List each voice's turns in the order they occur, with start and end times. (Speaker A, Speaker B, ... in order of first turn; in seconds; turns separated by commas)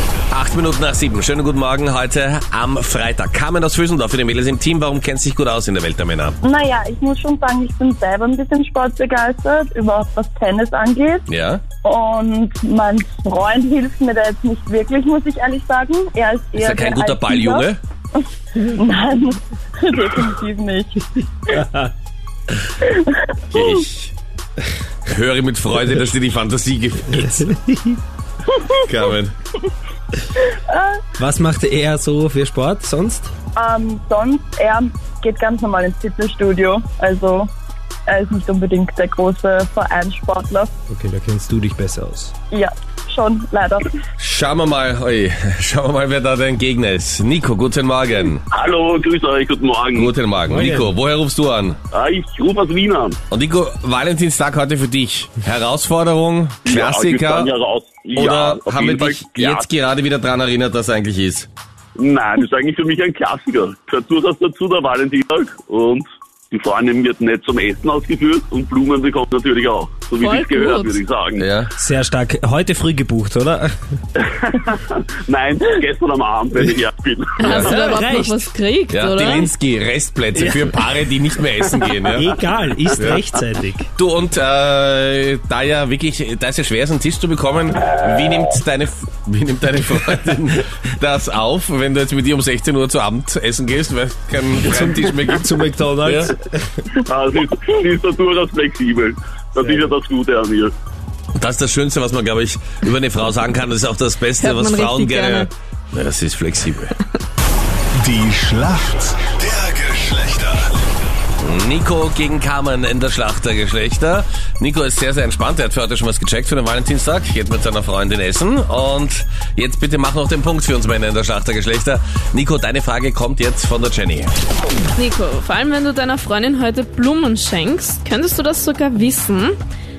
Speaker A: 0.3-6.4, Speaker B: 6.4-11.3, Speaker A: 11.3-11.6, Speaker B: 11.8-17.7, Speaker A: 16.6-17.8, Speaker B: 18.6-21.6, Speaker C: 21.6-21.9, Speaker B: 22.8-23.7, Speaker A: 23.5-24.1, Speaker A: 25.1-27.5, Speaker C: 27.1-28.0, Speaker A: 28.8-29.3, Speaker B: 30.7-31.0, Speaker C: 31.2-33.3, Speaker B: 33.5-37.5, Speaker B: 38.1-40.7, Speaker C: 40.9-42.3, Speaker B: 42.5-43.9, Speaker A: 44.2-48.4, Speaker D: 48.5-50.1, Speaker A: 49.9-51.8, Speaker C: 50.5-51.0, Speaker D: 51.9-53.2, Speaker A: 53.3-57.5, Speaker D: 56.6-59.7, Speaker A: 58.1-61.5, Speaker D: 62.0-71.5, Speaker E: 70.2-71.0, Speaker A: 71.4-71.7, Speaker C: 71.8-73.7, Speaker D: 74.2-77.7, Speaker E: 77.4-79.5, Speaker A: 77.5-77.7, Speaker C: 77.5-78.5, Speaker A: 78.9-82.3, Speaker C: 80.3-80.9, Speaker C: 82.0-83.9, Speaker A: 84.0-96.3, Speaker C: 94.7-96.8, Speaker D: 97.0-100.7, Speaker A: 101.3-106.9, Speaker E: 104.4-105.5, Speaker F: 108.0-110.2, Speaker A: 109.3-110.4, Speaker A: 111.4-124.3, Speaker E: 124.9-129.6